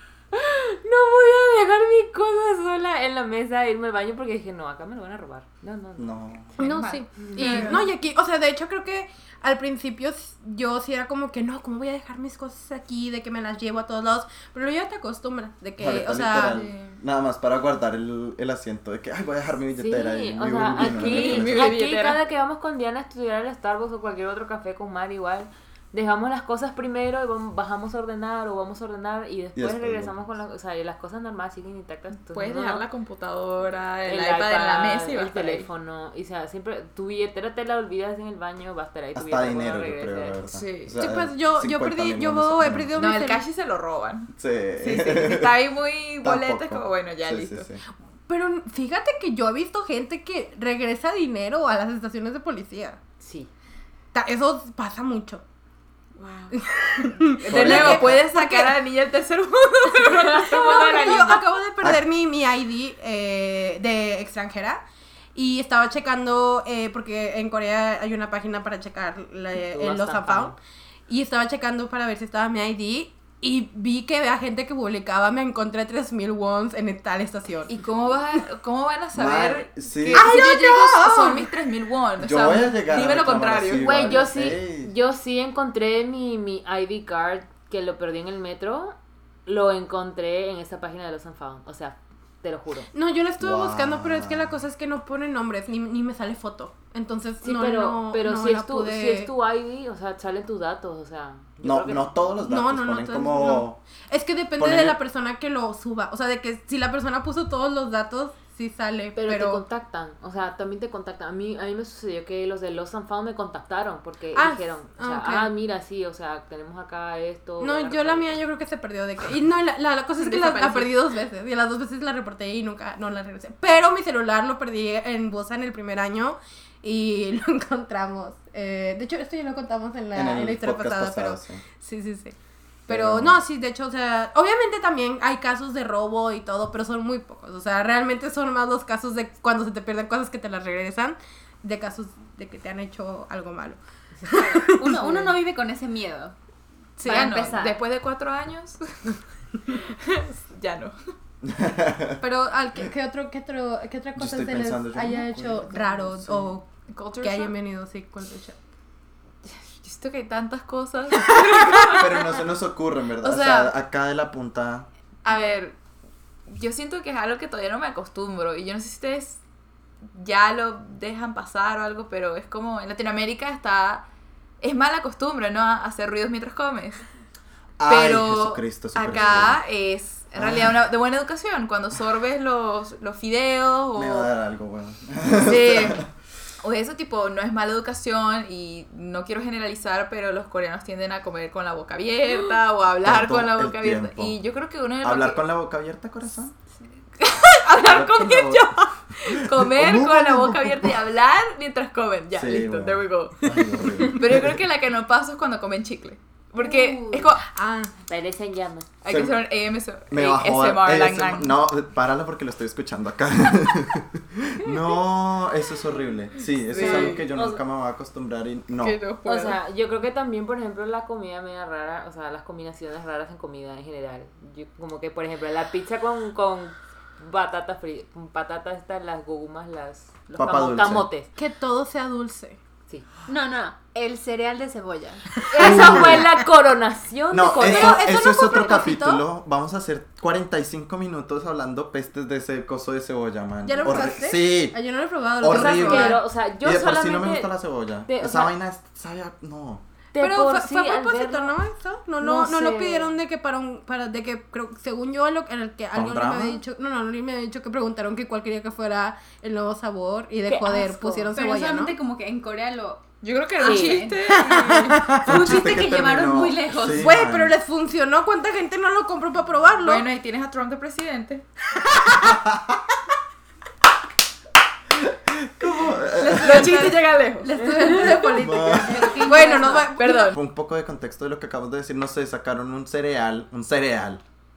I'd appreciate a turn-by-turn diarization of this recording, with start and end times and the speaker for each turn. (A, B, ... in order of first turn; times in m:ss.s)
0:00.3-0:06.3 A
0:06.0-0:06.6 B
0:06.6-0:07.9 C
0:06.6-0:16.6 D
0:07.3-0:07.7 A
0:15.8-0:21.7 B
0:16.5-0:17.0 C
0:19.8-0:32.9 A
0:20.7-0:22.2 C
0:29.6-0:30.2 B
0:32.3-0:35.7 C
0:34.1-0:40.4 A
0:39.2-0:42.9 B
0:40.5-0:41.0 C
0:41.0-0:43.5 D
0:43.0-0:47.7 C
0:44.4-0:45.6 B
0:46.2-0:47.8 B
0:48.3-0:53.0 D
0:53.2-0:53.5 A
0:54.1-0:55.4 D
0:56.2-0:56.6 C
0:56.5-0:58.8 D
0:57.3-1:01.2 C
0:57.5-0:58.2 B
1:00.0-1:04.8 D
1:00.0-1:01.5 A
1:05.4-1:10.6 D
1:09.6-1:10.6 A
1:11.1-1:17.7 D
1:17.7-1:24.2 C
1:19.2-1:20.3 B
1:20.1-1:21.5 D
1:22.2-1:24.9 B
1:23.8-1:32.9 A
1:32.9-1:39.3 D
1:33.4-1:34.6 B
1:37.4-1:42.1 A
1:41.6-1:43.8 B
1:42.4-1:49.6 D
1:44.6-1:45.0 B
1:49.2-1:58.4 A
1:54.3-1:55.5 D
1:57.6-2:12.4 D
2:00.2-2:00.9 C
2:10.1-2:11.6 B
2:12.9-2:25.4 D
2:12.9-2:13.4 B
2:24.3-2:26.4 E
2:27.0-2:27.5 D
2:27.0-2:27.8 E
2:27.0-2:31.1 C
2:31.4-2:32.2 B
2:32.2-2:38.6 D
2:34.2-2:36.5 B
2:36.9-2:37.5 C
2:39.4-2:42.2 C
2:41.5-2:42.0 D
2:41.8-2:44.9 B
2:43.2-2:43.7 C
2:45.2-2:45.8 C
2:46.5-2:49.4 C
2:50.0-2:54.1 C
2:54.6-2:57.0 C
2:57.8-2:59.6 B
2:57.9-3:04.3 C
3:00.4-3:00.8 B
3:04.0-3:06.1 B
3:05.4-3:06.1 C
3:06.6-3:15.4 C
3:13.0-3:14.4 B
3:15.0-3:16.6 B
3:17.2-3:27.5 C
3:17.7-3:21.0 B
3:22.3-3:24.6 B
3:26.6-3:27.3 E
3:27.6-3:27.9 D
3:28.1-3:28.9 A
3:29.0-3:31.6 C
3:29.1-3:29.4 B
3:30.1-3:39.0 B
3:36.7-3:37.3 C
3:36.8-3:37.6 A
3:38.8-3:39.6 C
3:39.2-3:51.3 A
3:50.3-3:51.1 B
3:51.4-3:52.6 D
3:53.3-3:55.4 E
3:55.5-3:58.7 A
3:55.5-3:56.3 D
3:55.6-3:56.4 B
3:57.3-4:04.8 B
3:57.5-3:59.2 D
4:03.6-4:06.2 D
4:05.4-4:09.8 B
4:05.5-4:07.5 A
4:08.0-4:08.5 A
4:10.1-4:11.6 A
4:10.2-4:22.0 D
4:12.2-4:13.2 A
4:15.9-4:16.6 B
4:20.5-4:21.3 A
4:20.9-4:24.5 E
4:23.2-4:25.2 C
4:23.6-4:24.1 A
4:24.3-4:25.8 D
4:25.2-4:27.0 E
4:25.2-4:27.6 B
4:27.0-4:30.1 D
4:29.8-4:31.4 C
4:31.9-4:32.3 D
4:32.2-4:32.7 B
4:35.0-4:37.0 B
4:36.1-4:38.2 C
4:36.3-4:40.4 D
4:37.7-4:38.2 A
4:38.3-4:39.2 B
4:38.4-4:39.9 E
4:39.0-4:40.4 C
4:40.2-4:44.2 B